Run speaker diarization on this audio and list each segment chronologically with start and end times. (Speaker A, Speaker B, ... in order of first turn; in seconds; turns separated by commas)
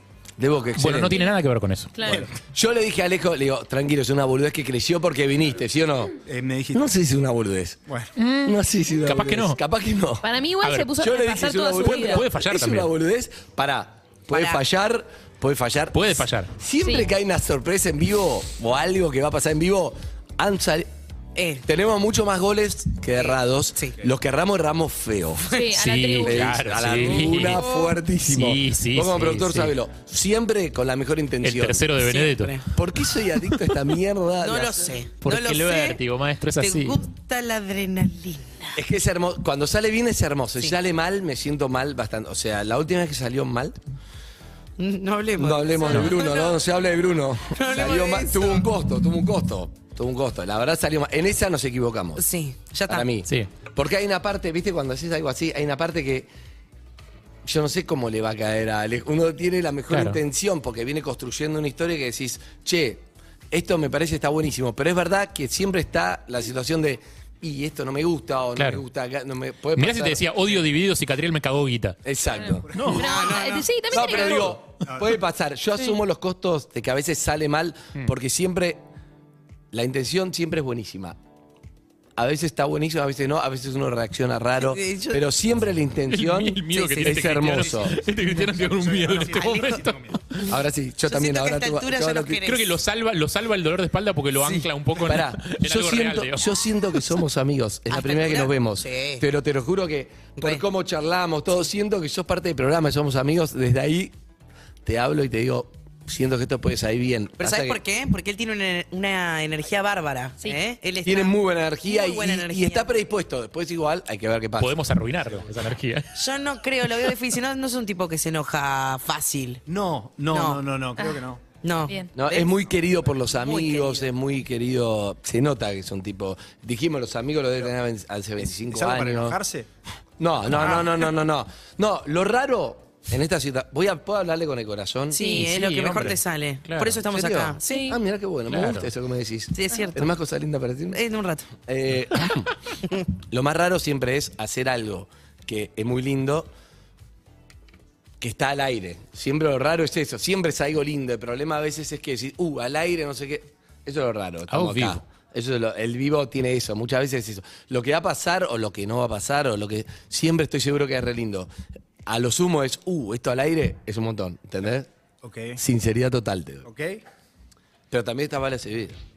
Speaker A: 0.4-1.2, Speaker B: 0.8-2.2, Speaker C: 1.9-2.2, Speaker A: 2.3-6.1, Speaker D: 6.2-6.9, Speaker A: 6.7-7.8, Speaker B: 8.2-9.6, Speaker A: 8.4-10.3, Speaker C: 10.2-12.3, Speaker B: 10.6-11.0, Speaker A: 11.0-20.9, Speaker B: 11.9-12.9, Speaker E: 14.3-14.6, Speaker B: 15.9-16.5, Speaker E: 21.3-21.6, Speaker A: 21.6-25.5, Speaker E: 23.1-23.9, Speaker C: 25.5-26.6, Speaker B: 25.7-29.7, Speaker A: 26.2-31.9, Speaker E: 27.2-27.9, Speaker B: 31.4-32.7, Speaker E: 31.9-32.6, Speaker A: 32.7-35.0, Speaker E: 34.4-38.7, Speaker B: 35.2-37.0, Speaker A: 38.8-43.8, Speaker E: 44.8-46.6, Speaker A: 45.4-52.2, Speaker E: 47.5-48.7, Speaker E: 52.2-53.1, Speaker A: 52.9-56.3, Speaker A: 57.4-70.5, Speaker B: 59.9-60.2, Speaker B: 68.5-68.8, Speaker B: 69.7-72.0, Speaker A: 72.0-73.1, Speaker C: 72.4-74.6, Speaker D: 72.7-73.1, Speaker E: 73.0-73.7, Speaker A: 73.9-78.8, Speaker D: 74.8-75.1, Speaker A: 79.7-81.2, Speaker A: 82.2-88.0, Speaker E: 84.6-85.2, Speaker B: 86.1-90.5, Speaker D: 88.1-90.2, Speaker E: 89.1-89.9, Speaker A: 90.5-92.4, Speaker E: 91.0-92.7, Speaker B: 92.4-96.6, Speaker E: 94.4-94.7, Speaker A: 95.0-104.1, Speaker E: 97.9-99.2, Speaker E: 100.4-100.6, Speaker A: 104.8-107.8, Speaker E: 107.4-112.9, Speaker A: 111.0-114.8, Speaker B: 114.6-116.1, Speaker E: 116.2-119.6, Speaker D: 119.7-121.4, Speaker E: 120.3-120.6, Speaker E: 121.6-122.6, Speaker C: 121.9-122.1, Speaker A: 122.1-129.4, Speaker E: 123.3-124.1, Speaker D: 128.4-129.7, Speaker A: 130.2-135.3, Speaker E: 135.1-137.9, Speaker B: 135.2-137.0, Speaker A: 137.1-141.0, Speaker C: 137.6-138.0, Speaker B: 138.5-138.9, Speaker E: 139.5-140.1, Speaker E: 140.9-141.5, Speaker A: 141.6-142.6, Speaker A: 143.1-146.5, Speaker A: 148.2-161.5, Speaker B: 154.5-155.0, Speaker A: 162.1-164.9, Speaker D: 165.2-165.6, Speaker A: 165.6-166.7, Speaker D: 166.6-167.0, Speaker A: 167.9-169.0